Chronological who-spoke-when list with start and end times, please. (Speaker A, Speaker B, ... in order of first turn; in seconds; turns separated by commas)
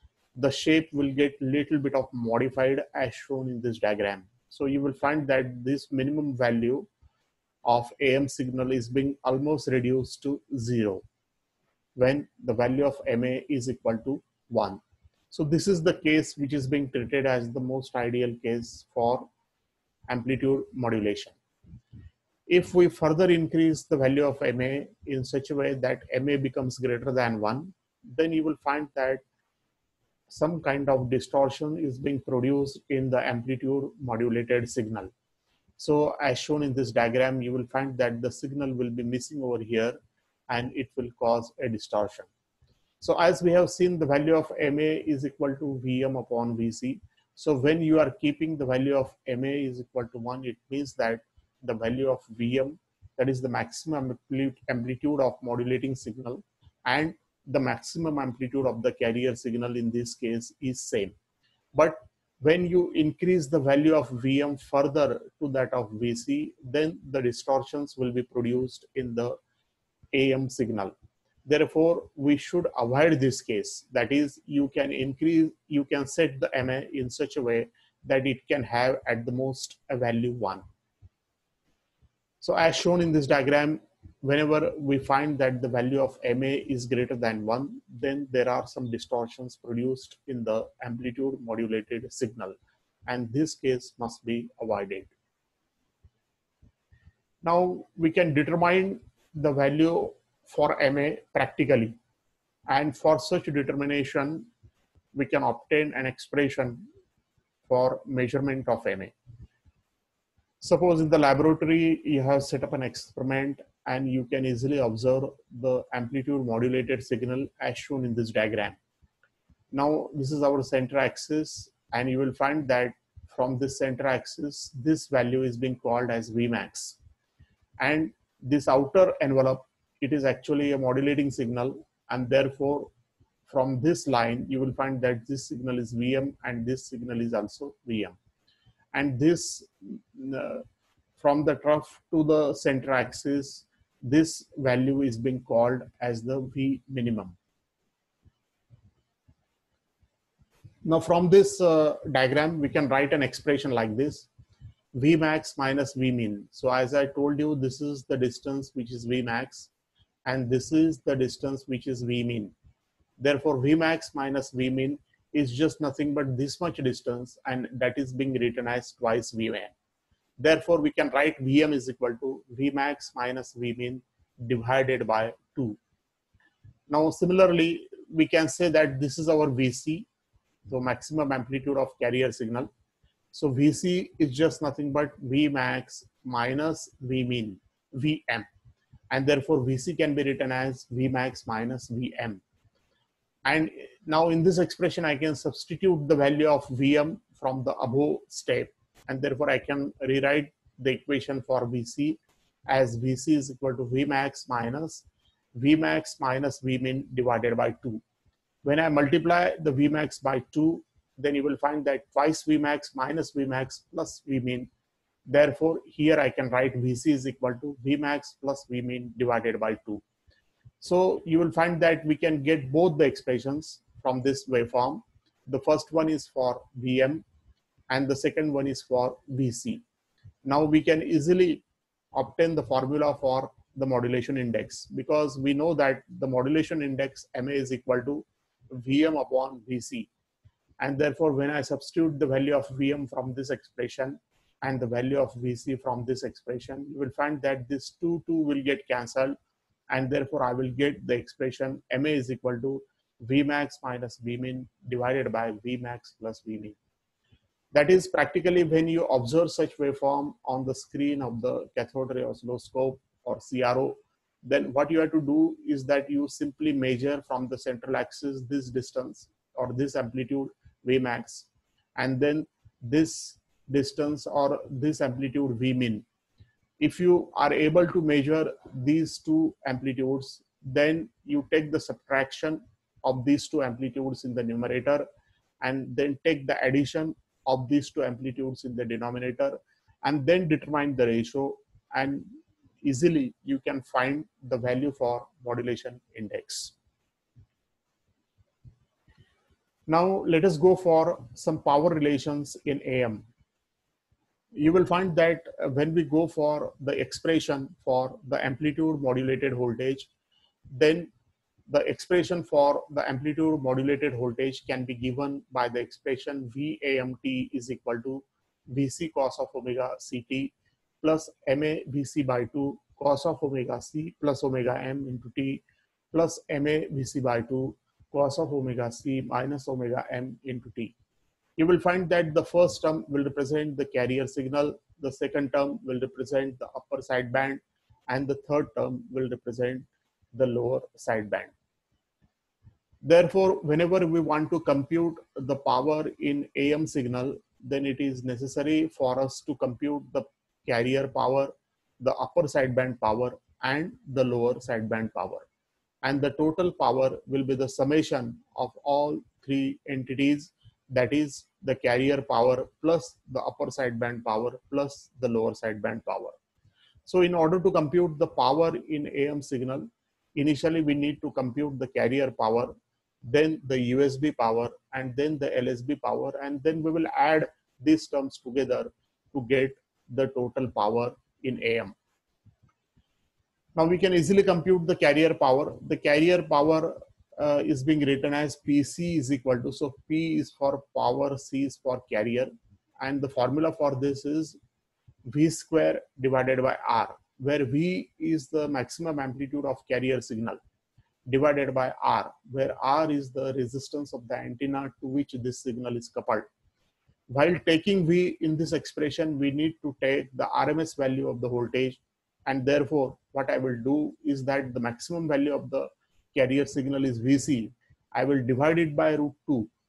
Speaker A: 0.3-6.9, Speaker A: 7.6-11.0, Speaker A: 11.9-19.3, Speaker A: 20.1-21.4, Speaker A: 22.5-29.2, Speaker A: 30.3-35.1, Speaker A: 35.8-40.0, Speaker A: 40.5-42.3, Speaker A: 43.0-61.1, Speaker A: 61.7-69.4, Speaker A: 70.1-70.9, Speaker A: 71.5-80.6, Speaker A: 82.4-92.5, Speaker A: 93.1-95.1, Speaker A: 97.4-102.0, Speaker A: 102.7-104.5, Speaker A: 105.1-106.8, Speaker A: 107.7-109.1, Speaker A: 110.6-118.8, Speaker A: 119.7-127.0, Speaker A: 127.8-132.9, Speaker A: 133.5-138.2, Speaker A: 138.9-140.6, Speaker A: 141.2-147.3, Speaker A: 150.8-154.3, Speaker A: 154.9-159.7, Speaker A: 160.2-162.5, Speaker A: 163.2-169.7, Speaker A: 170.4-175.8, Speaker A: 176.9-180.1, Speaker A: 180.7-182.7, Speaker A: 183.3-188.5, Speaker A: 189.1-192.4, Speaker A: 193.4-208.0, Speaker A: 208.6-214.7, Speaker A: 215.3-220.0, Speaker A: 220.8-227.2, Speaker A: 227.9-229.8, Speaker A: 230.4-231.6, Speaker A: 232.1-240.1, Speaker A: 240.8-249.3, Speaker A: 249.9-256.8, Speaker A: 257.7-276.1, Speaker A: 276.8-285.1, Speaker A: 285.6-292.3, Speaker A: 292.8-296.7, Speaker A: 299.9-303.2, Speaker A: 304.5-310.1, Speaker A: 310.7-311.1, Speaker A: 311.7-330.9, Speaker A: 331.6-341.5, Speaker A: 343.0-355.4, Speaker A: 356.0-366.3, Speaker A: 367.1-372.7, Speaker A: 373.2-381.9, Speaker A: 383.8-394.6, Speaker A: 395.3-400.6, Speaker A: 401.3-406.5, Speaker A: 407.3-419.7